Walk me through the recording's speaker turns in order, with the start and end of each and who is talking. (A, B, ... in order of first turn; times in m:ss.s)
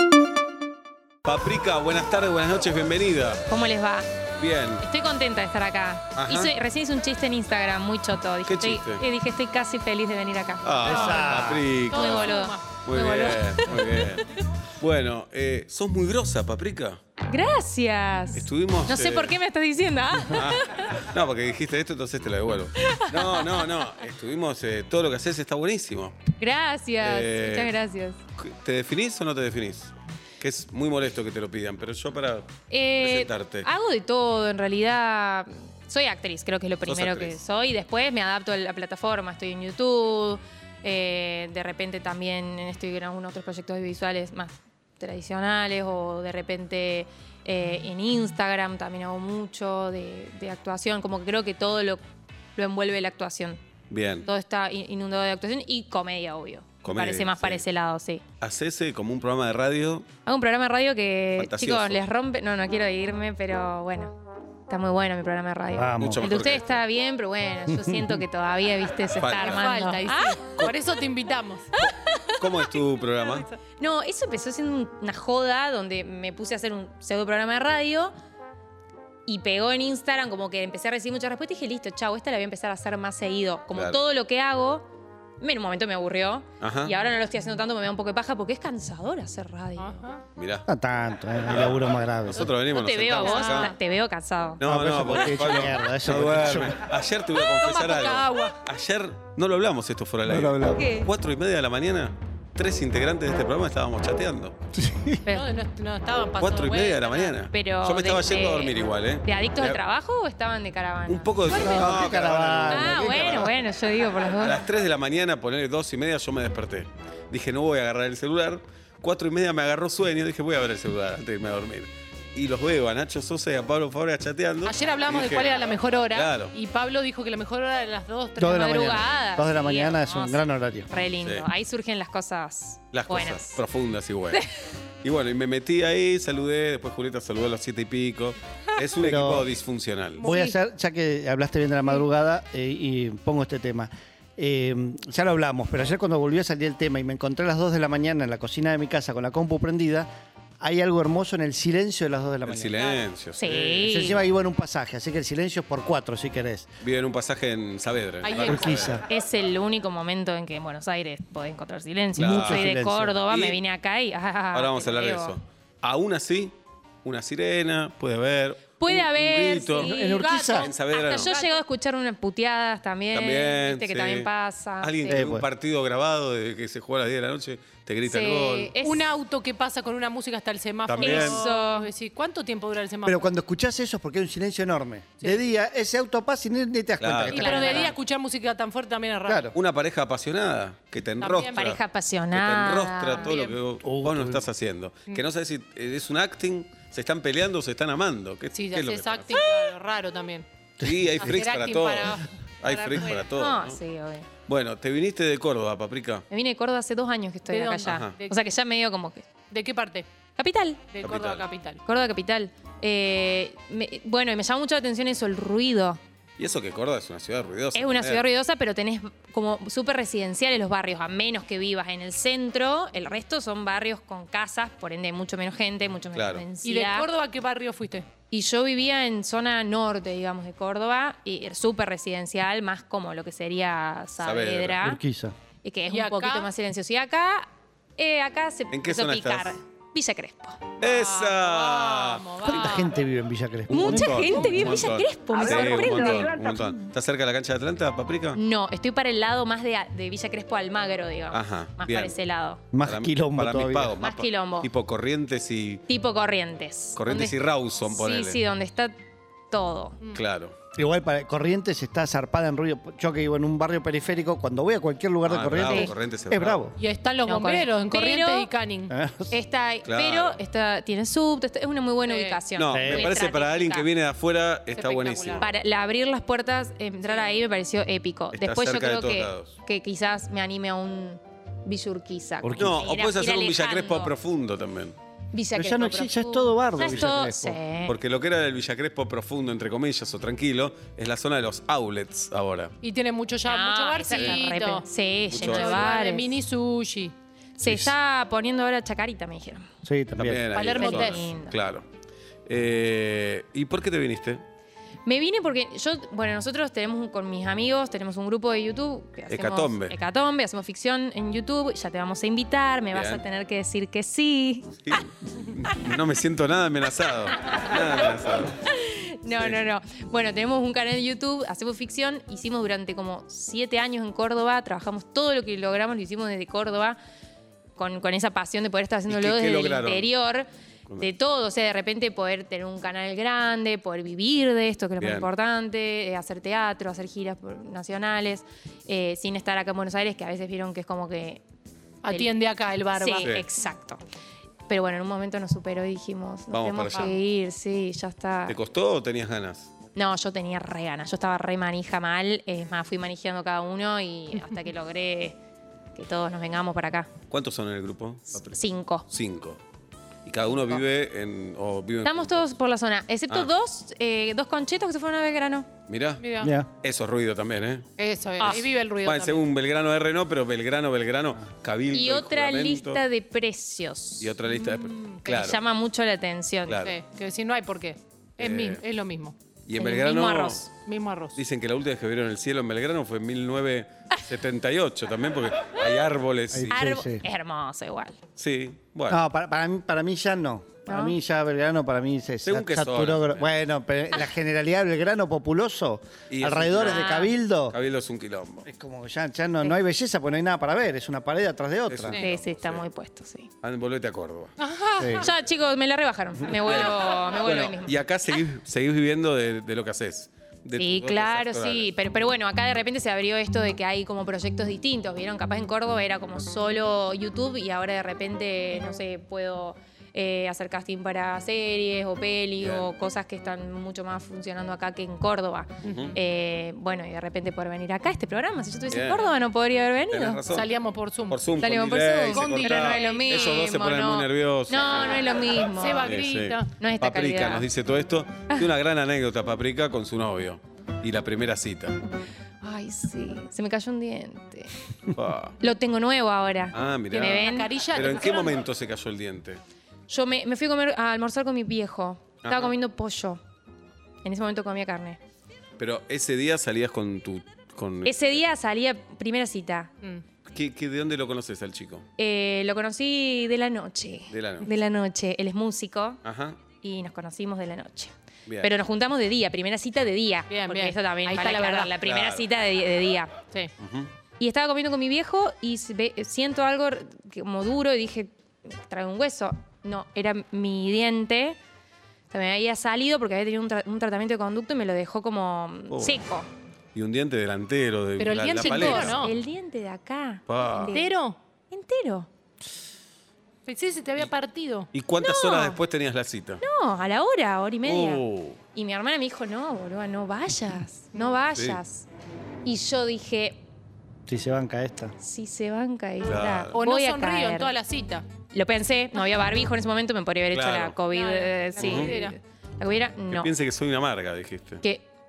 0:01.2-0:03.5 A
0:03.5-0:04.1 B
0:04.4-0:04.8 A
0:04.8-0:11.3 B
0:06.1-0:06.5 A
0:08.4-0:09.0 A
0:10.6-0:14.3 A
0:10.8-0:11.7 C
0:11.9-0:12.7 D
0:11.9-0:14.0 B
0:14.8-0:17.0 A
0:17.3-0:20.9 B
0:18.3-0:19.4 A
0:20.3-0:26.2 A
0:22.8-0:23.6 B
0:26.4-0:28.2 B
0:27.0-0:27.7 A
0:28.4-0:33.7 A
0:32.7-0:52.0 B
0:36.8-0:37.4 A
0:52.6-0:53.6 B
0:53.9-0:54.3 A
0:54.2-0:58.2 B
0:56.8-0:57.6 A
0:58.4-1:00.1 A
1:00.2-1:04.1 B
1:01.4-1:02.0 A
1:04.7-1:10.5 B
1:05.7-1:06.2 C
1:06.0-1:06.8 A
1:07.7-1:08.2 C
1:09.2-1:09.7 A
1:09.3-1:11.7 D
1:11.8-1:12.7 B
1:11.8-1:13.5 A
1:13.8-1:18.1 B
1:19.3-1:24.9 B
1:25.4-1:30.0 B
1:26.6-1:26.9 A
1:29.8-1:30.2 D
1:30.4-1:30.7 A
1:30.7-1:32.5 C
1:31.4-1:33.7 A
1:32.7-1:34.6 B
1:33.2-1:33.8 D
1:34.6-1:44.6 A
1:34.6-1:36.8 C
1:37.4-1:38.6 D
1:40.2-1:40.9 C
1:40.8-1:41.1 B
1:44.7-1:45.2 C
1:45.3-1:47.3 D
1:46.4-1:49.8 A
1:47.5-1:51.3 B
1:51.1-1:53.6 A
1:51.5-1:52.0 D
1:51.5-1:53.5 C
1:52.7-1:54.6 B
1:54.4-2:06.5 A
2:04.6-2:08.7 D
2:08.4-2:10.9 C
2:08.4-2:13.6 B
2:11.2-2:11.5 A
2:12.9-2:14.4 A
2:15.0-2:20.3 A
2:19.0-2:19.5 C
2:20.2-2:20.6 B
2:20.2-2:30.1 C
2:30.6-2:32.8 C
2:32.4-2:34.1 A
2:32.8-2:33.0 D
2:33.4-2:34.2 B
2:33.4-2:36.7 C
2:36.8-2:39.0 A
2:38.2-2:39.0 D
2:38.4-2:39.0 C
2:39.1-2:45.4 B
2:42.2-2:42.7 A
2:42.2-2:43.2 C
2:43.3-2:43.6 A
2:44.5-2:49.9 A
2:48.8-2:55.2 B
2:49.8-2:51.6 D
2:49.8-2:50.7 C
2:50.5-2:51.3 A
2:53.1-2:54.3 A
2:54.8-2:58.7 A
2:55.1-2:55.5 C
2:58.1-2:59.1 B
2:58.8-3:03.3 D
3:00.8-3:01.4 A
3:01.0-3:01.9 B
3:03.0-3:07.9 C
3:07.0-3:07.9 A
3:07.3-3:09.5 D
3:07.3-3:07.9 B
3:09.2-3:09.6 C
3:09.5-3:11.8 A
3:11.2-3:11.7 D
3:11.5-3:13.4 B
3:12.3-3:19.5 A
3:13.2-3:13.6 D
3:13.8-3:14.4 C
3:18.5-3:20.4 D
3:20.8-3:21.1 C
3:20.8-3:23.8 A
3:21.2-3:23.2 D
3:23.3-3:24.3 B
3:24.4-3:26.2 A
3:26.3-3:29.2 B
3:27.5-3:28.4 D
3:27.8-3:28.1 A
3:29.5-3:30.1 D
3:30.4-3:30.8 B
3:30.9-3:31.8 D
3:31.0-3:31.4 A
3:31.8-3:36.0 B
3:36.4-3:38.2 A
3:37.7-3:47.1 B
3:46.1-3:46.4 A
3:46.6-3:48.0 D
3:48.3-3:55.0 B
3:54.2-3:54.9 A
3:54.8-3:55.3 C
3:55.6-4:00.7 B
3:55.9-3:56.5 D
3:58.7-3:59.5 A
4:00.8-4:02.8 A
4:00.8-4:02.9 D
4:02.4-4:04.8 C
4:03.7-4:08.4 A
4:03.7-4:06.7 B
4:08.3-4:12.6 B
4:11.3-4:12.1 A
4:12.7-4:13.9 C
4:12.8-4:15.8 A
4:14.0-4:14.7 B
4:15.9-4:18.9 B
4:17.0-4:18.4 A
4:19.5-4:20.0 B
4:20.1-4:20.5 A
4:20.7-4:26.8 C
4:25.2-4:26.6 A
4:25.6-4:25.9 B
4:26.8-4:28.9 D
4:27.2-4:28.5 B
4:28.9-4:29.3 C
4:29.3-4:33.9 B
4:29.8-4:30.4 A
4:32.0-4:32.4 D
4:32.6-4:35.4 A
4:32.7-4:33.1 C
4:34.7-4:35.5 D
4:35.4-4:44.1 B
4:38.3-4:39.5 A
4:42.4-4:42.7 C
4:42.6-4:45.0 A
4:45.3-4:47.9 B
4:45.5-4:47.6 C
4:47.9-4:52.8 A
4:52.8-4:57.1 D
4:53.4-4:56.4 B
4:54.1-4:54.4 A
4:55.3-4:56.0 A
4:57.6-4:59.7 B
4:57.6-4:57.9 C
4:59.8-5:00.4 C
5:00.2-5:01.8 A
5:00.5-5:01.3 D
5:00.7-5:01.5 B
5:02.5-5:04.4 A
5:05.0-5:15.0 B
5:09.3-5:09.9 A
5:12.9-5:13.2 A
5:14.8-5:18.6 A
5:17.4-5:17.8 B
5:18.6-5:27.0 B
5:19.3-5:19.6 A
5:27.8-5:30.5 B
5:29.1-5:30.1 A
5:31.0-5:41.4 B
5:35.0-5:35.3 A
5:42.0-5:43.3 D
5:42.1-5:42.4 B
5:43.0-5:44.0 B
5:44.7-5:48.6 B
5:46.5-5:47.1 A
5:48.5-5:49.7 A
5:49.9-5:55.4 B
5:55.9-5:57.1 B
5:57.3-5:59.6 A
5:58.4-5:59.0 B
6:00.2-6:02.4 A
6:02.0-6:05.7 B
6:05.9-6:06.2 A
6:06.2-6:06.5 D
6:06.4-6:06.7 C
6:06.8-6:07.9 A
6:08.0-6:09.4 D
6:08.4-6:13.0 A
6:11.9-6:14.4 B
6:14.2-6:15.6 A
6:14.5-6:15.2 D
6:15.2-6:16.8 B
6:16.7-6:17.0 A
6:16.8-6:19.4 D
6:18.4-6:18.8 A
6:19.6-6:20.7 A
6:19.8-6:20.7 B
6:20.8-6:21.4 D
6:21.3-6:26.8 A
6:26.5-6:27.2 C
6:26.7-6:28.2 B
6:28.4-6:29.2 A
6:29.1-6:37.8 C
6:30.8-6:31.2 B
6:32.4-6:33.5 A
6:36.3-6:37.1 A
6:36.8-6:37.3 B
6:37.7-6:38.7 A
6:38.6-6:42.2 C
6:41.9-6:42.8 A
6:42.2-6:43.5 B
6:43.6-6:44.5 A
6:44.6-6:45.3 D
6:45.0-6:45.2 C
6:45.2-6:48.0 B
6:46.5-6:51.9 A
6:50.7-7:10.4 B
7:02.6-7:02.8 A
7:05.8-7:06.2 A
7:05.8-7:06.2 D
7:08.9-7:09.3 A
7:10.1-7:10.7 A
7:10.5-7:11.4 D
7:11.3-7:15.4 A
7:11.6-7:16.2 B
7:12.3-7:13.2 D
7:15.7-7:16.7 D
7:16.0-7:22.0 A
7:16.8-7:17.7 B
7:22.6-7:24.7 B
7:25.1-7:25.6 A
7:25.6-7:27.7 B
7:26.7-7:29.6 A
7:27.1-7:28.6 D
7:30.1-7:33.4 B
7:32.4-7:32.7 A
7:34.2-7:35.2 B
7:35.8-7:38.4 A
7:38.0-7:39.9 B
7:40.5-7:42.0 A
7:42.2-7:46.2 B
7:44.3-7:44.7 A
7:46.2-7:46.6 A
7:46.8-7:53.3 B
7:50.5-7:51.9 D
7:52.0-7:52.5 A
7:53.8-7:54.1 A
7:54.4-8:01.6 B
8:02.3-8:06.5 B
8:05.9-8:06.2 A
8:06.9-8:09.3 A
8:08.2-8:09.4 D
8:08.6-8:11.1 B
8:10.5-8:11.0 A
8:10.9-8:11.4 D
8:11.7-8:12.3 B
8:13.6-8:14.9 D
8:14.9-8:16.6 A
8:15.2-8:15.8 B
8:16.6-8:18.2 B
8:17.8-8:18.6 A
8:18.7-8:22.1 B
8:21.5-8:21.8 A
8:22.6-8:23.6 B
8:24.3-8:25.1 C
8:25.2-8:27.7 B
8:26.2-8:26.8 A
8:26.7-8:28.2 D
8:28.5-8:33.5 B
8:30.5-8:31.0 A
8:31.1-8:32.4 D
8:31.8-8:32.1 A
8:33.3-8:34.8 A